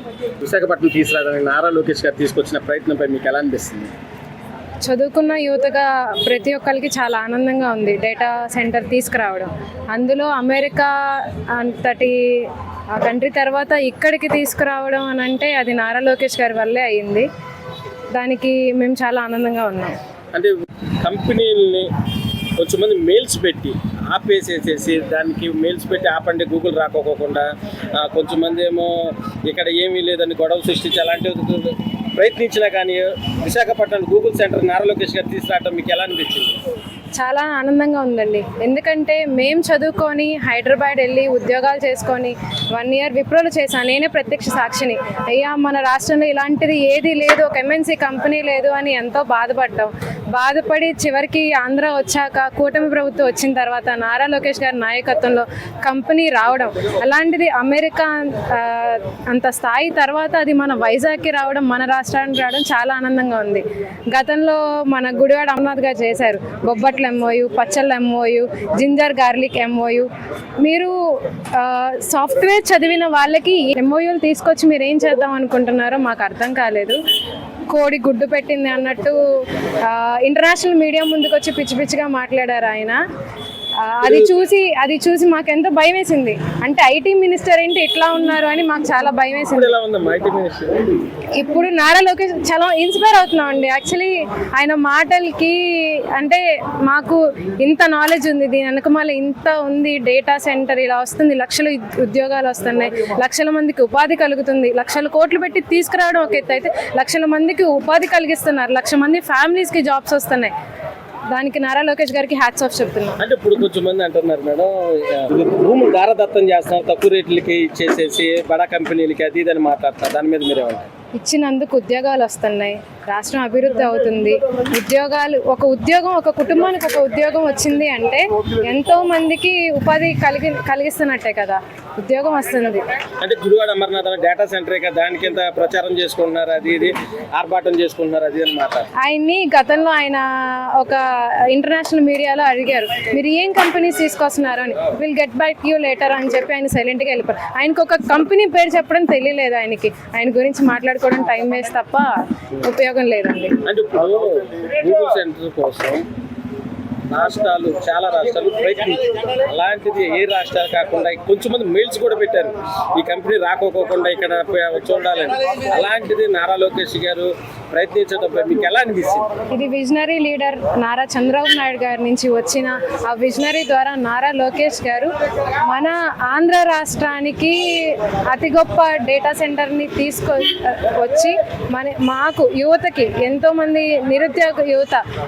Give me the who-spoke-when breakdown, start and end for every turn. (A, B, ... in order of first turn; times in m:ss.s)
0:00.4-0:03.9 A
0:04.8-0:17.3 B
0:18.1-0:20.0 B
0:20.3-0:21.9 A
0:22.6-0:36.5 A
0:37.2-1:10.1 B
1:10.6-1:11.0 B
1:11.5-1:17.0 B
1:17.7-1:23.0 B
1:23.8-1:29.7 B
1:24.0-1:24.3 A
1:29.5-1:30.8 A
1:31.3-1:50.5 B
1:51.3-1:53.2 B
1:53.2-2:00.9 A
2:01.2-2:12.9 B
2:13.2-2:18.9 A
2:19.0-2:33.6 B
2:33.6-2:36.0 A
2:37.1-2:49.3 A
2:49.5-3:05.0 B